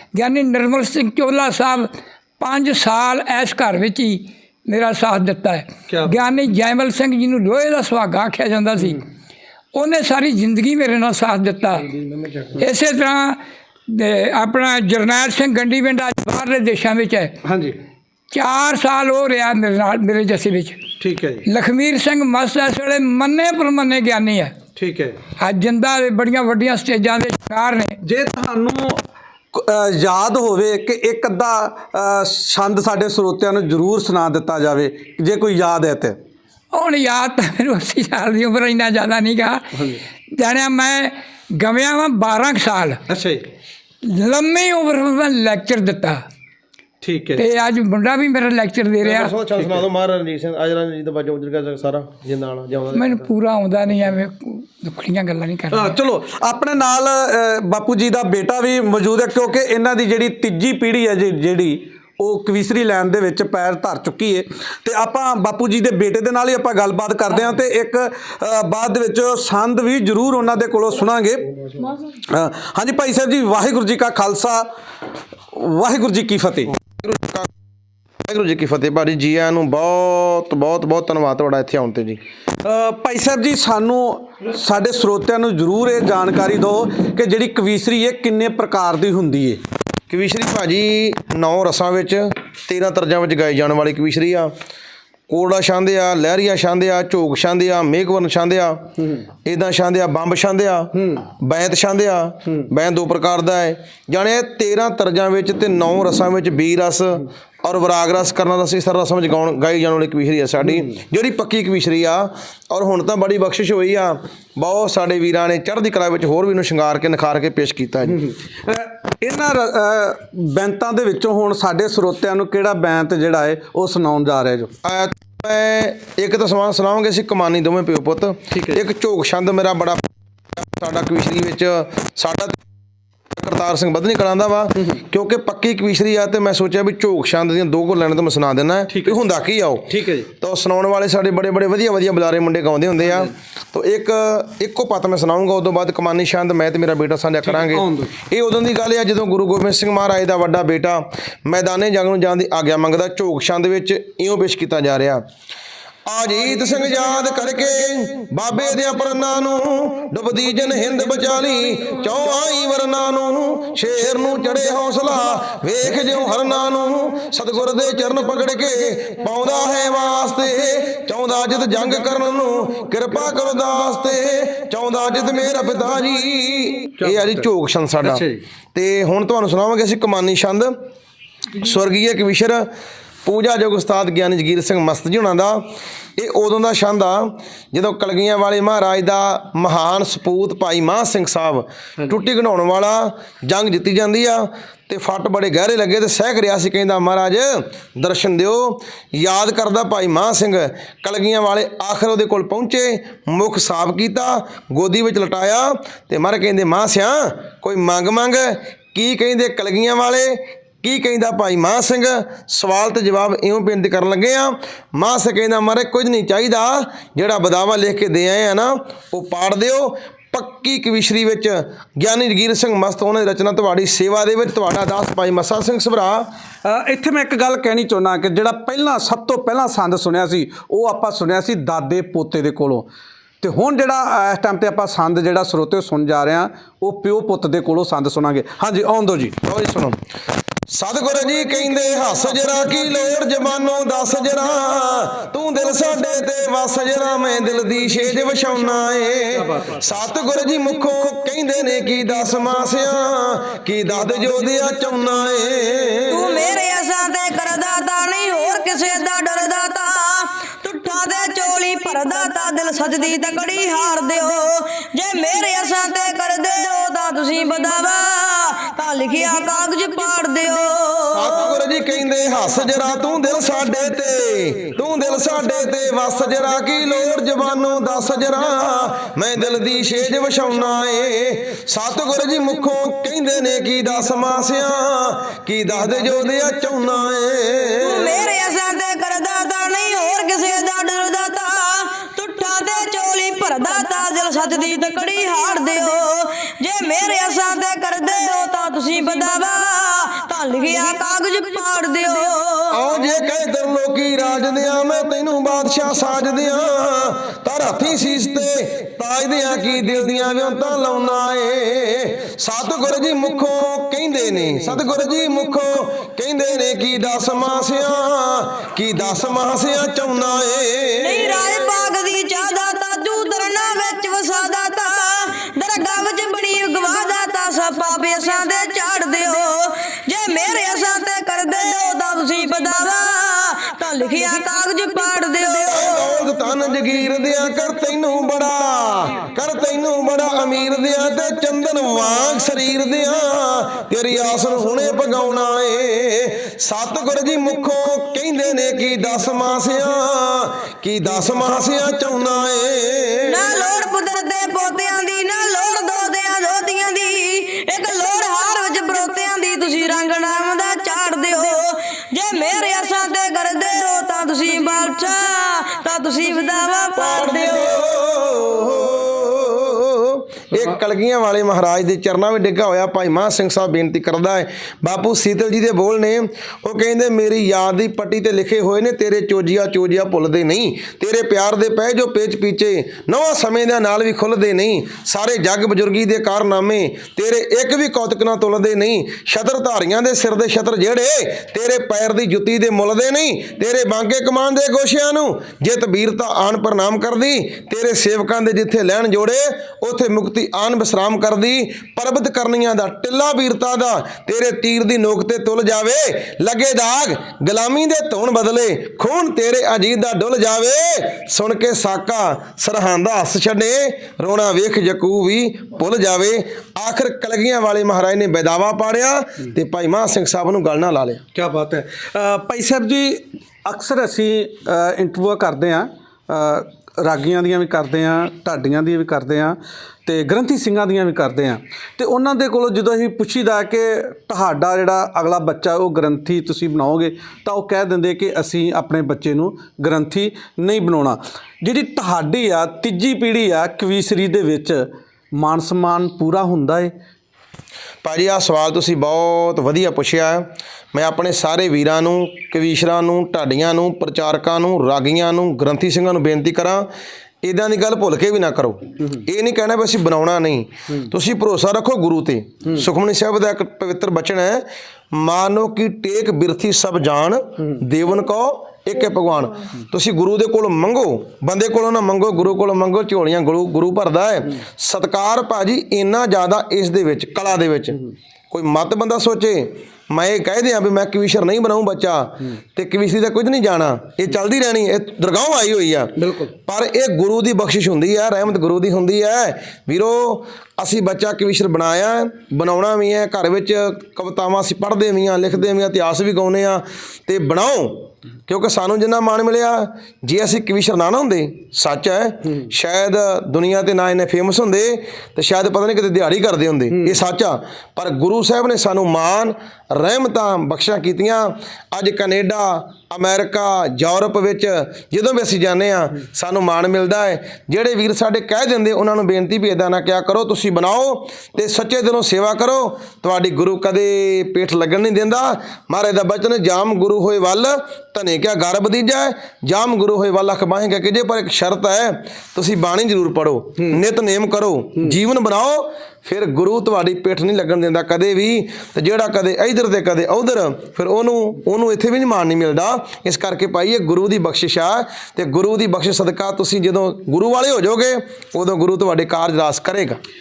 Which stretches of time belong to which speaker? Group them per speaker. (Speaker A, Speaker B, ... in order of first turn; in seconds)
Speaker A: 0.1-9.0, 9.7-11.9, 12.6-17.4, 18.3-20.8, 21.4-24.5, 25.4-28.0, 36.7-39.8, 40.3-43.0, 44.0-46.2, 47.4-49.3, 52.9-55.9
Speaker B: 5.9-6.2, 12.2-12.6, 17.4-17.8, 21.0-21.4, 24.8-25.2, 28.0-29.0, 29.5-36.2, 39.7-40.0, 43.1-43.4, 47.0-47.4, 55.7-71.6, 72.1-74.7, 75.5-76.8, 82.6-89.6, 100.9-101.3, 118.0-124.7, 128.5-128.8, 138.9-139.2, 139.9-140.3, 143.1-143.3, 147.5-148.1, 177.0-177.5, 178.0-178.4, 226.6-232.9, 233.4-239.4, 249.4-249.7, 421.3-446.9, 486.1-486.5, 506.9-507.2
Speaker C: 49.0-53.2, 76.9-77.5, 78.2-82.2, 90.1-94.5, 95.3-98.9, 99.4-118.2, 124.8-132.6, 133.3-155.2, 156.1-178.2, 178.7-180.8, 181.5-182.7, 183.2-226.3, 239.4-240.0, 240.7-256.5, 271.1-288.2, 302.7-321.5, 335.6-353.6, 366.9-421.2, 448.0-456.9, 457.4-478.0, 478.5-550.2
Speaker D: 256.1-271.4, 287.8-302.8, 321.0-336.1, 353.2-367.7